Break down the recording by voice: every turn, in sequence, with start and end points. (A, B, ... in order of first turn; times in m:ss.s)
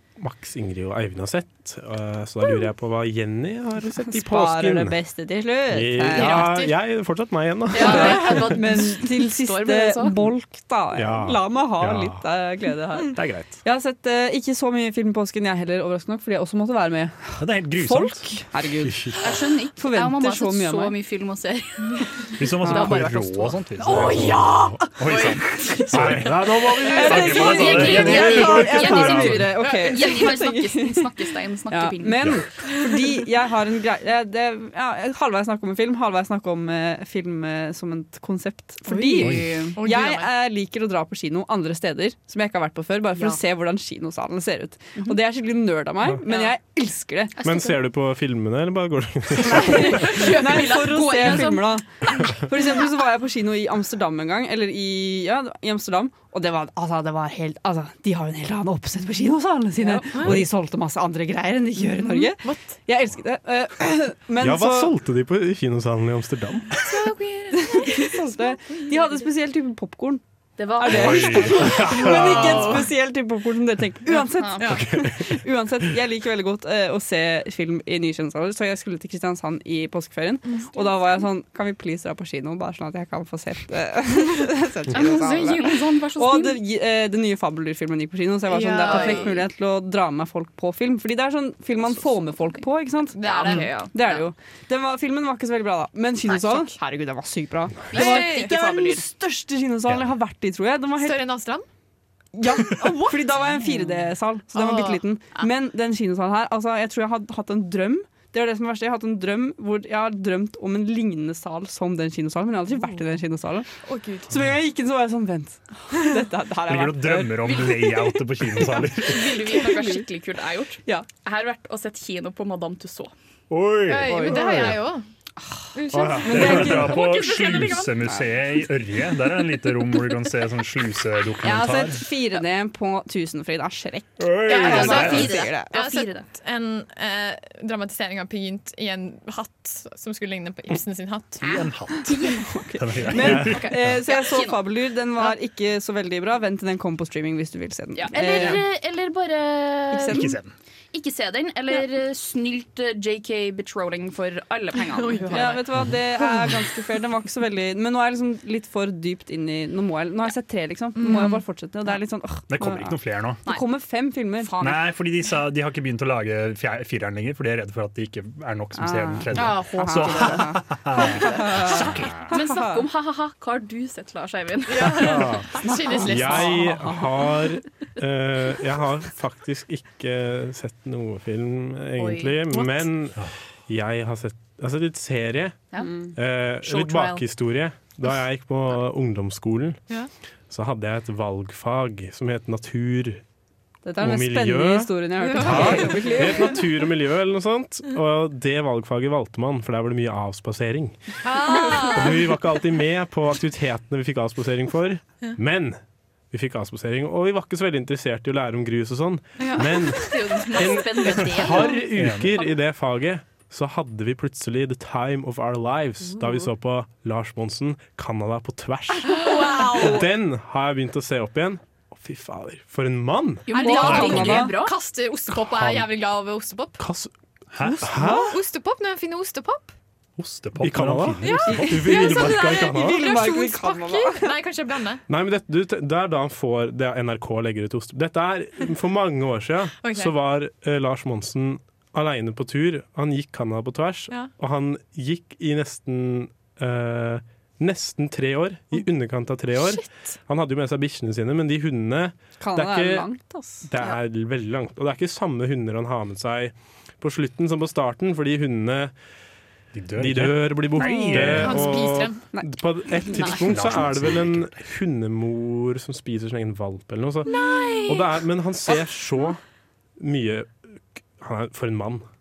0:00.2-0:05.0 A
0:04.0-0:06.4 B
0:05.7-0:08.5 A
0:06.2-0:06.8 C
0:07.7-0:10.3 D
0:07.8-0:19.2 B
0:11.0-0:12.2 A
0:13.2-0:13.5 E
0:17.4-0:18.3 E
0:18.9-0:19.2 A
0:19.2-0:23.3 D
0:19.8-0:21.0 B
0:22.4-0:28.7 E
0:22.6-0:25.1 B
0:25.1-0:25.8 D
0:25.9-0:29.6 A
0:26.9-0:31.1 B
0:27.0-0:32.4 D
0:29.6-0:30.3 C
0:31.7-0:47.3 B
0:38.9-0:40.3 C
0:39.2-0:39.5 E
0:47.4-0:47.8 D
0:47.4-0:50.0 A
0:49.5-0:52.8 D
0:49.5-1:04.9 B
1:02.1-1:02.7 C
1:04.4-1:06.7 A
1:06.9-1:08.8 D
1:07.1-1:07.4 C
1:07.6-1:10.2 B
1:10.6-1:12.8 D
1:10.8-1:41.2 B
1:10.9-1:12.0 E
1:11.0-1:12.6 A
1:14.1-1:14.8 D
1:14.7-1:15.4 A
1:24.9-1:26.6 D
1:28.5-1:29.3 C
1:28.8-1:29.4 D
1:33.2-1:33.8 C
1:33.2-1:34.2 D
1:36.3-1:36.7 D
1:37.9-1:39.1 D
1:38.0-1:38.5 C
1:41.0-1:41.7 C
1:42.4-1:53.7 B
1:44.5-1:45.0 C
1:53.8-1:54.3 C
1:54.3-1:57.7 B
1:56.7-1:59.3 E
1:59.0-2:03.1 D
1:59.5-2:00.0 B
2:03.5-2:04.3 E
2:03.9-2:05.1 C
2:04.0-2:04.6 B
2:04.3-2:04.8 A
2:05.8-2:07.3 C
2:05.9-2:06.9 A
2:06.2-2:07.1 B
2:06.3-2:12.0 E
2:06.4-2:08.2 D
2:11.4-2:15.7 B
2:14.2-2:15.4 E
2:14.5-2:21.4 C
2:14.6-2:16.3 D
2:21.4-2:24.0 E
2:21.4-2:24.6 D
2:22.5-2:28.6 B
2:27.9-2:30.3 D
2:29.9-2:30.4 B
2:30.1-2:30.5 E
2:30.9-2:35.6 D
2:34.8-2:35.6 C
2:35.3-2:44.5 B
2:36.3-2:36.6 C
2:41.0-2:41.4 C
2:42.5-2:43.4 E
2:44.4-2:45.0 D
2:44.6-2:52.3 E
2:48.8-2:52.8 B
2:49.4-2:50.4 D
2:51.0-2:55.7 D
2:54.7-2:56.7 C
2:55.1-2:55.4 A
2:55.6-2:57.0 B
2:56.0-3:09.8 A
3:02.0-3:02.8 D
3:05.7-3:06.0 D
3:05.8-3:06.1 B
3:06.6-3:07.3 D
3:10.5-3:13.2 A
3:13.8-3:16.5 B
3:14.0-3:25.8 A
3:15.2-3:16.5 C
3:21.2-3:22.2 C
3:26.3-3:43.5 A
3:29.4-3:30.0 C
3:30.0-3:31.8 D
3:31.9-3:32.4 E
3:39.1-3:40.1 C
3:39.6-3:39.9 D
3:43.5-3:44.8 D
3:43.5-3:46.8 C
3:43.6-3:44.6 B
3:43.8-3:44.4 E
3:45.4-3:45.9 A
3:46.8-3:47.1 A
3:47.5-3:48.1 E
3:47.8-3:48.4 A
3:47.9-3:48.3 B
3:48.0-3:49.7 C
3:50.2-3:51.8 E
3:50.6-3:53.2 A
3:51.2-3:55.0 C
3:51.5-3:54.3 B
3:55.1-4:13.1 A
3:59.8-4:00.1 C
4:09.6-4:10.2 C
4:12.4-4:13.6 B
4:13.6-4:18.9 A
4:19.7-4:21.8 E
4:20.0-4:29.4 A
4:21.2-4:22.2 C
4:23.0-4:23.8 D
4:23.2-4:24.6 E
4:27.3-4:28.0 D
4:27.3-4:28.0 C
4:30.0-4:32.1 A